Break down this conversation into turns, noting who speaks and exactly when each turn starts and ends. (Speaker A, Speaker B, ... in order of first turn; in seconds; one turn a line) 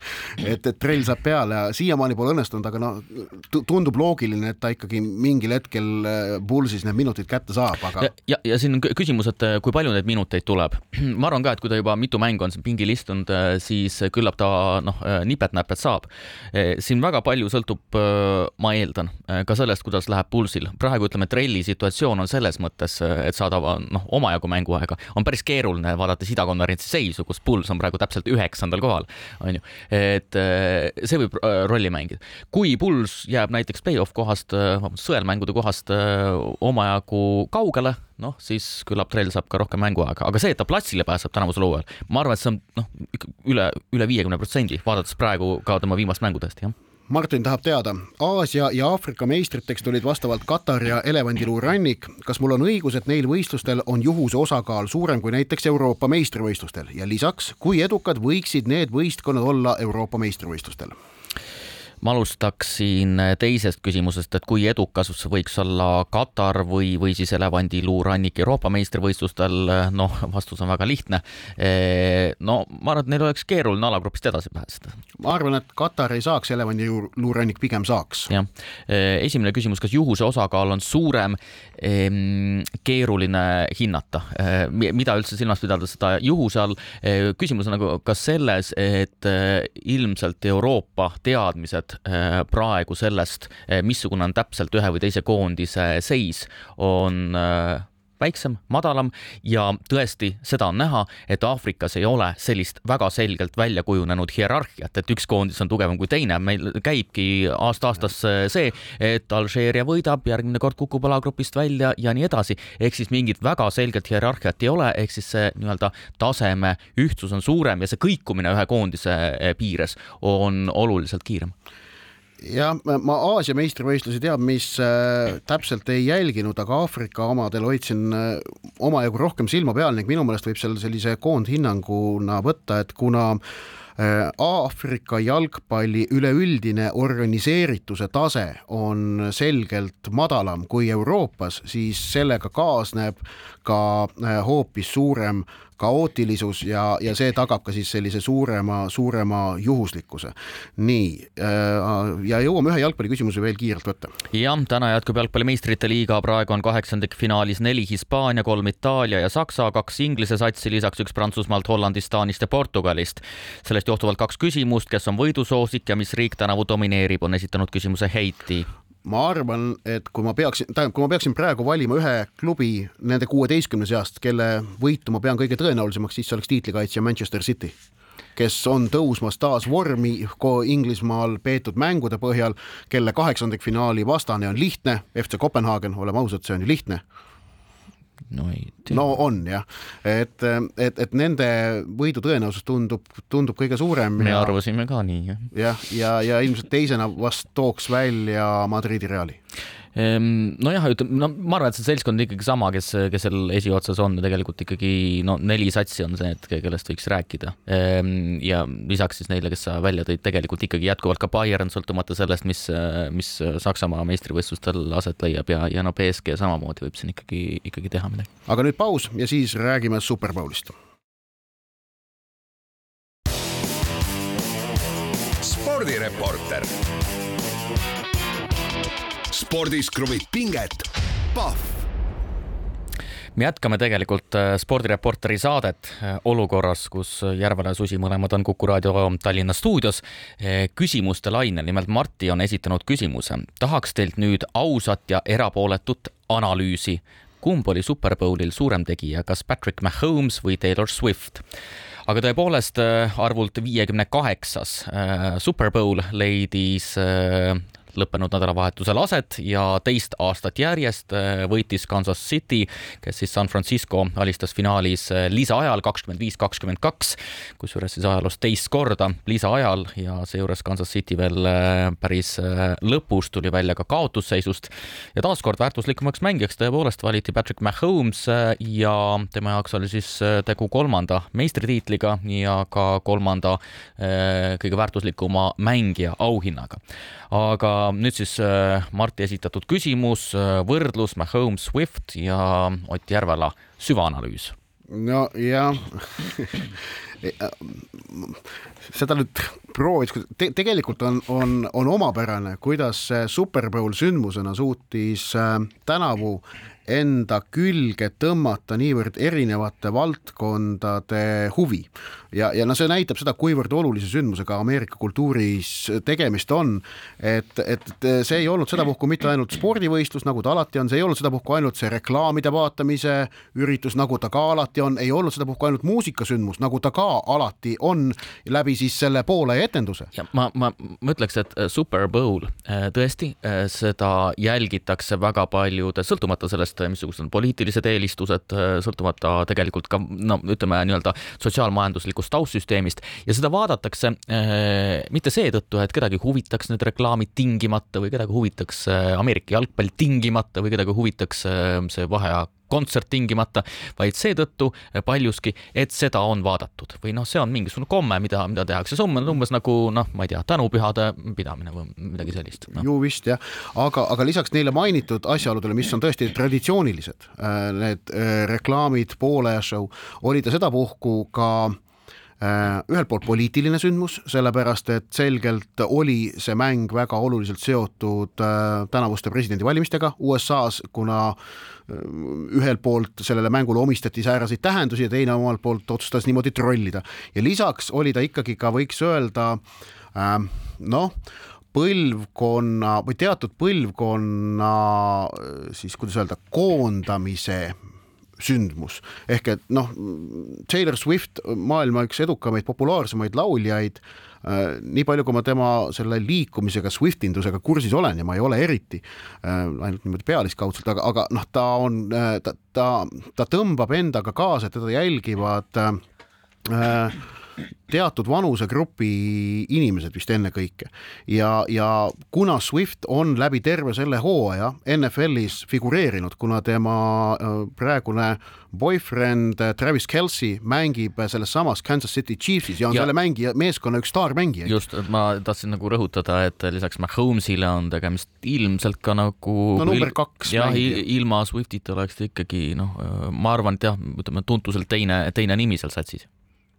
Speaker A: 0.3-8.1
Speaker B: 8.0-46.7
Speaker A: 47.1-60.9
Speaker B: 62.0-75.0
Speaker A: 75.2-78.3
Speaker B: 78.3-121.5
Speaker A: 122.4-133.4
Speaker A: 134.0-154.1
Speaker B: 154.3-168.7
Speaker A: 169.1-177.8
Speaker A: 178.4-187.0
Speaker B: 188.3-189.0
Speaker A: 188.9-194.6
Speaker B: 194.2-195.5
Speaker A: 195.5-199.4
Speaker B: 199.9-218.3
Speaker A: 218.5-220.7
Speaker C: 225.4-226.7
Speaker C: 229.3-231.9
Speaker B: 233.3-251.4
Speaker B: 252.1-286.8
Speaker B: 287.3-294.5
Speaker A: 294.9-330.1
Speaker B: 330.1-362.9
Speaker A: 362.7-371.8
Speaker A: 372.4-389.6
Speaker A: 390.1-391.1
Speaker A: 391.7-397.8
Speaker A: 398.4-416.0
Speaker A: 416.6-417.2
Speaker A: 417.9-434.7
Speaker B: 434.6-446.3
Speaker A: 439.8-441.0